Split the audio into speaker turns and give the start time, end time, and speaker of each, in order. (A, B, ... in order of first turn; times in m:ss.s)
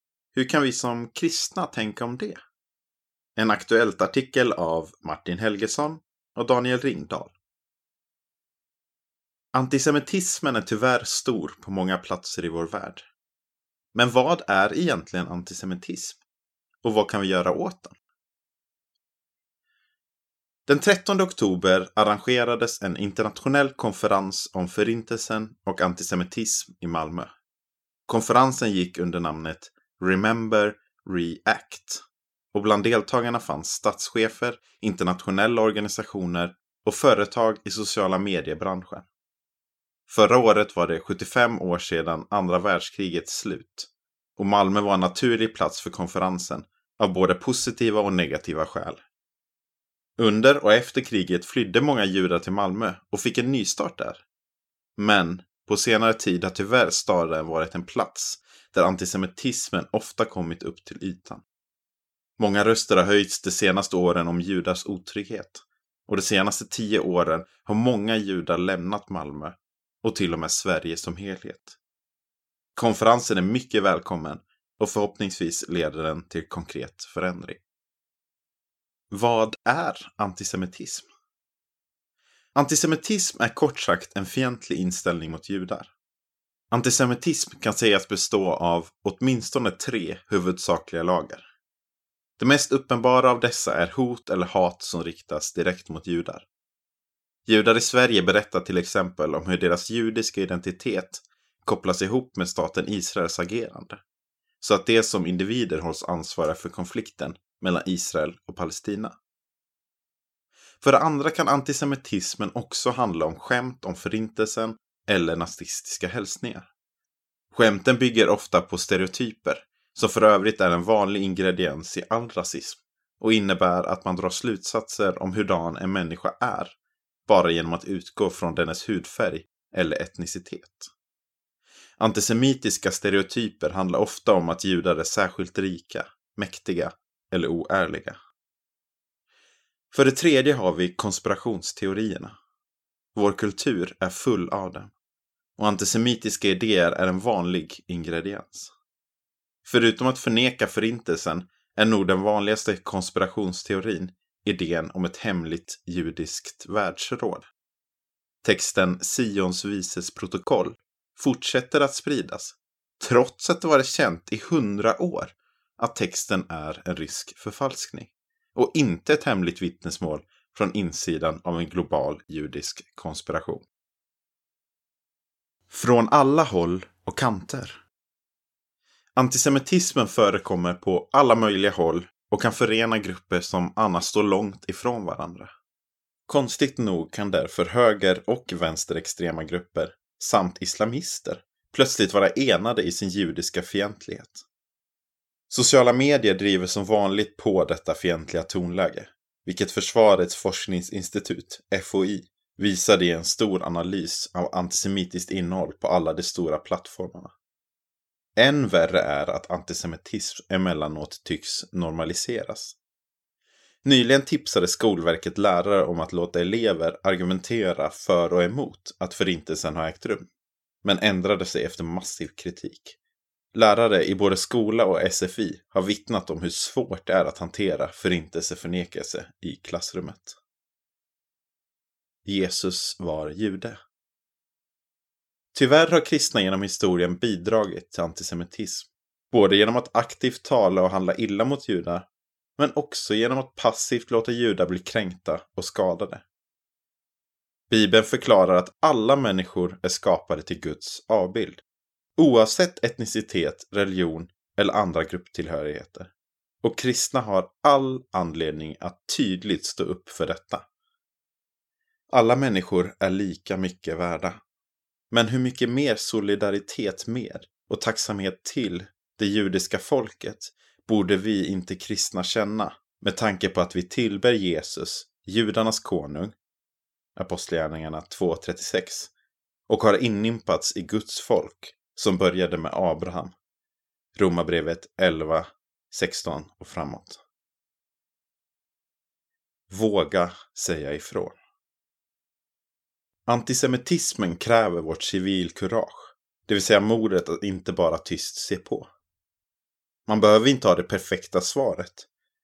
0:00.3-0:02.4 A
0:03.4-0:07.3 A
0:09.5-0:13.1 A
0:13.9-0:16.2 A
0:16.8-0:18.0 A
0:20.7-0:27.3 A
0:28.1-0:32.0 A
0:32.5-0:39.0 A
0:40.1-0:49.0 A
0:50.2-0:54.2 A
0:55.0-1:01.4 A
1:02.4-1:11.8 A
1:12.8-1:17.6 A
1:19.1-1:21.1 A
1:22.5-1:25.9 A
1:26.7-1:31.4 A
1:32.4-1:36.5 A
1:37.5-1:44.0 A
1:44.6-1:49.2 A
1:50.8-1:56.7 A
1:57.5-2:06.8 A
2:07.3-2:10.9 A
2:12.0-2:18.2 A
2:19.9-2:22.3 A
2:23.1-2:24.9 A
2:25.6-2:28.7 A
2:29.6-2:37.5 A
2:38.4-2:53.6 A
2:55.7-2:57.8 A
2:59.2-3:05.5 A
3:06.3-3:14.4 A
3:15.5-3:27.3 A
3:28.4-3:32.8 A
3:33.8-3:40.3 A
3:40.8-3:43.0 A
3:43.5-3:50.4 A
3:52.2-3:53.8 A
3:55.5-4:06.2 A
4:07.7-4:11.6 A
4:12.2-4:16.1 A
4:16.6-4:20.6 A
4:22.1-4:24.4 A
4:25.1-4:36.4 A
4:37.2-4:39.1 A
4:39.7-4:43.3 A
4:44.1-4:47.2 A
4:49.7-4:51.4 A
4:53.3-4:58.9 A
5:00.1-5:02.1 A